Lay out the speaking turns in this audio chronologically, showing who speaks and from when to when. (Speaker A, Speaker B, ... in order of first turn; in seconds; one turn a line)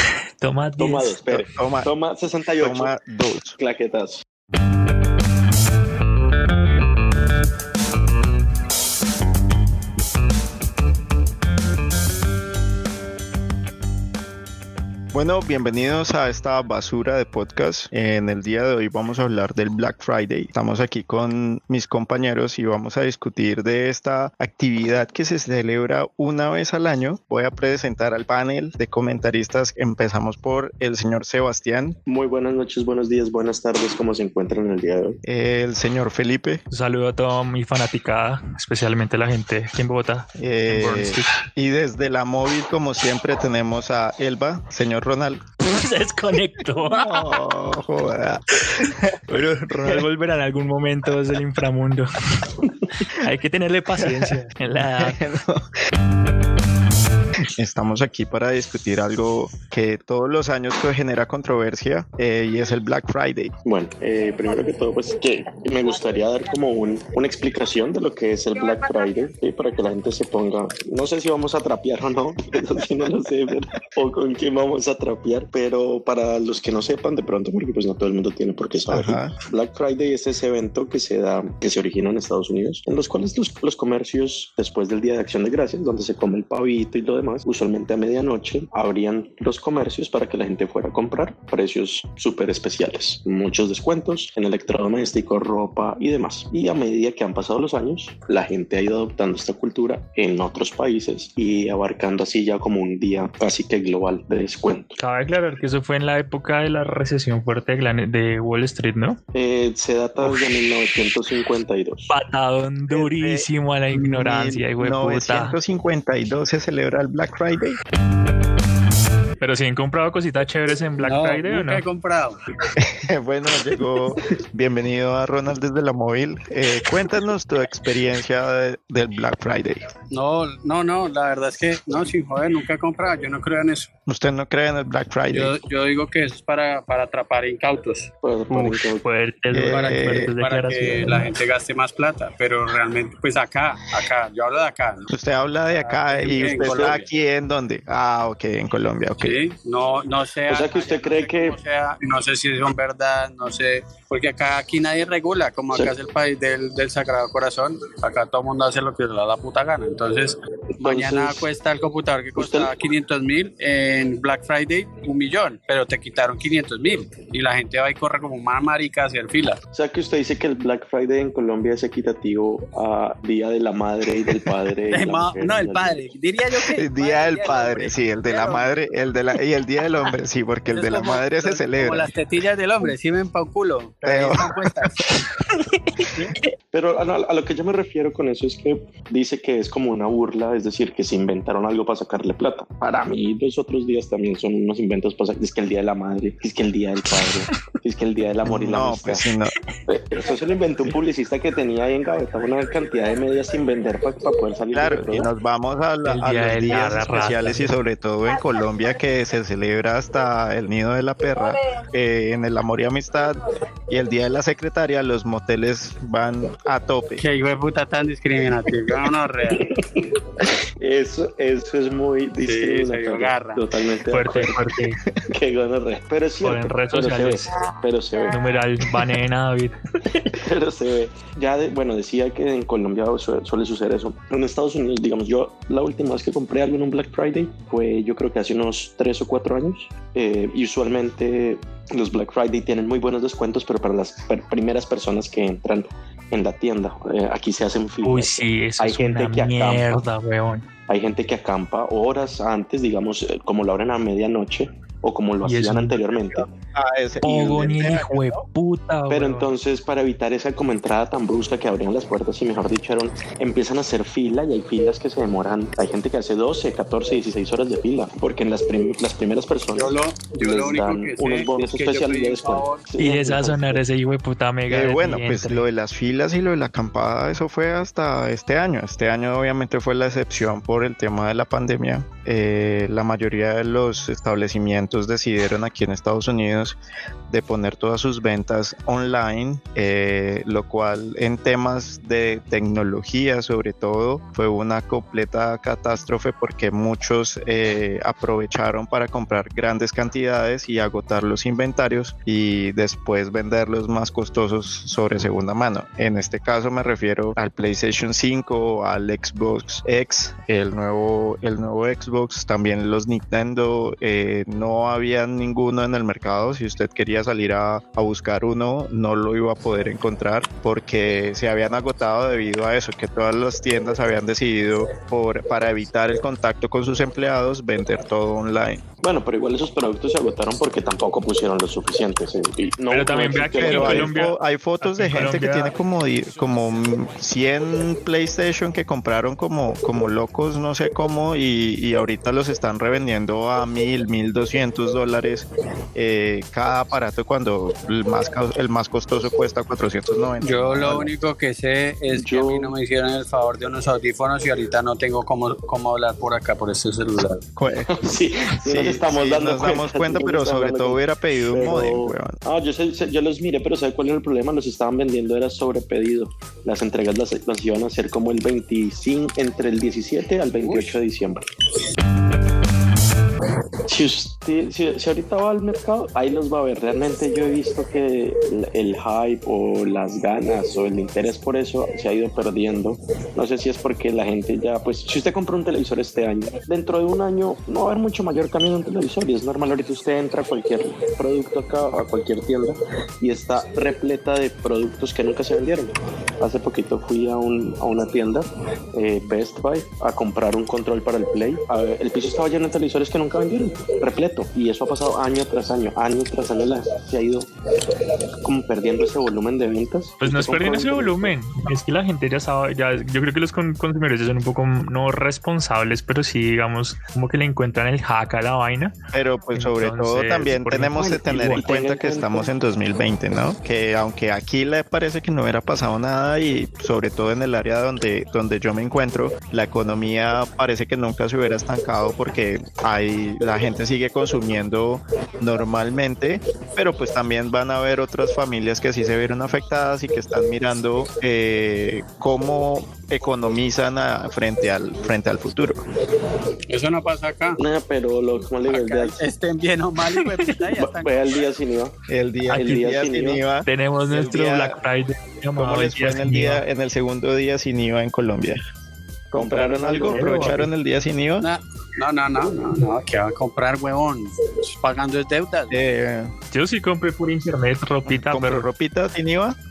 Speaker A: 0.4-1.2
Speaker B: 0.8-2.9
Speaker C: 1.3-1.9
Speaker C: 2.6-3.5
Speaker B: 3.6-4.2
Speaker C: 15.1-32.0
Speaker B: 32.0-35.2
Speaker C: 35.2-36.6
Speaker A: 36.7-41.3
Speaker C: 40.4-45.4
Speaker A: 45.6-47.3
Speaker C: 46.9-49.1
Speaker A: 48.8-52.6
Speaker A: 53.2-55.2
Speaker C: 54.0-55.6
Speaker C: 57.6-63.5
Speaker B: 63.6-105.0
Speaker C: 78.9-79.3
Speaker A: 105.0-109.2
Speaker B: 109.3-112.1
Speaker A: 110.2-110.5
Speaker A: 112.1-115.6
Speaker C: 112.9-117.8
Speaker A: 119.4-121.8
Speaker D: 121.0-122.4
Speaker C: 122.8-129.9
Speaker D: 130.1-133.9
Speaker C: 134.1-135.5
Speaker D: 135.3-138.1
Speaker B: 138.2-139.1
Speaker A: 138.5-141.3
Speaker C: 139.5-140.3
Speaker D: 139.7-145.1
Speaker C: 145.1-149.4
Speaker D: 145.8-147.1
Speaker B: 146.3-147.0
Speaker D: 149.2-169.6
Speaker B: 150.5-151.6
Speaker B: 160.8-161.5
Speaker B: 162.3-162.7
Speaker B: 169.7-176.0
Speaker D: 174.9-178.8
Speaker C: 176.7-182.1
Speaker D: 180.7-185.1
Speaker C: 184.0-184.9
Speaker B: 186.7-199.3
Speaker C: 198.4-199.5
Speaker B: 199.9-205.3
Speaker C: 204.7-213.4
Speaker A: 206.0-207.7
Speaker C: 213.9-217.2
Speaker D: 217.2-219.8
Speaker B: 219.5-228.4
Speaker D: 222.4-223.7
Speaker A: 224.1-225.0
Speaker A: 226.4-227.5
Speaker A: 228.3-229.8
Speaker B: 230.2-250.0
Speaker A: 248.0-250.7
Speaker B: 250.9-256.5
Speaker A: 255.4-256.0
Speaker C: 256.3-258.4
Speaker A: 257.2-259.5
Speaker B: 259.1-273.8
Speaker D: 269.7-272.9
Speaker A: 273.0-275.6
Speaker C: 274.7-286.8
Speaker C: 287.3-328.8
Speaker B: 329.0-334.1
Speaker A: 332.9-335.7
Speaker C: 333.6-351.1
Speaker D: 350.4-357.4
Speaker B: 352.1-352.7
Speaker C: 357.6-357.9
Speaker B: 357.9-371.5
Speaker C: 358.6-362.4
Speaker B: 373.9-407.5
Speaker B: 408.4-411.3
Speaker A: 410.2-418.9
Speaker C: 419.1-445.8
Speaker A: 419.5-421.6
Speaker B: 420.9-422.5
Speaker D: 446.7-447.6
Speaker B: 447.6-449.2
Speaker D: 448.7-451.4
Speaker B: 450.7-451.9
Speaker C: 452.1-454.8
Speaker B: 452.5-453.4
Speaker A: 453.6-456.6
Speaker C: 455.6-458.6
Speaker C: 459.3-461.5
Speaker B: 459.3-460.6
Speaker A: 459.9-460.6
Speaker D: 461.4-465.9
Speaker C: 465.7-466.3
Speaker A: 466.5-468.7
Speaker C: 468.1-469.6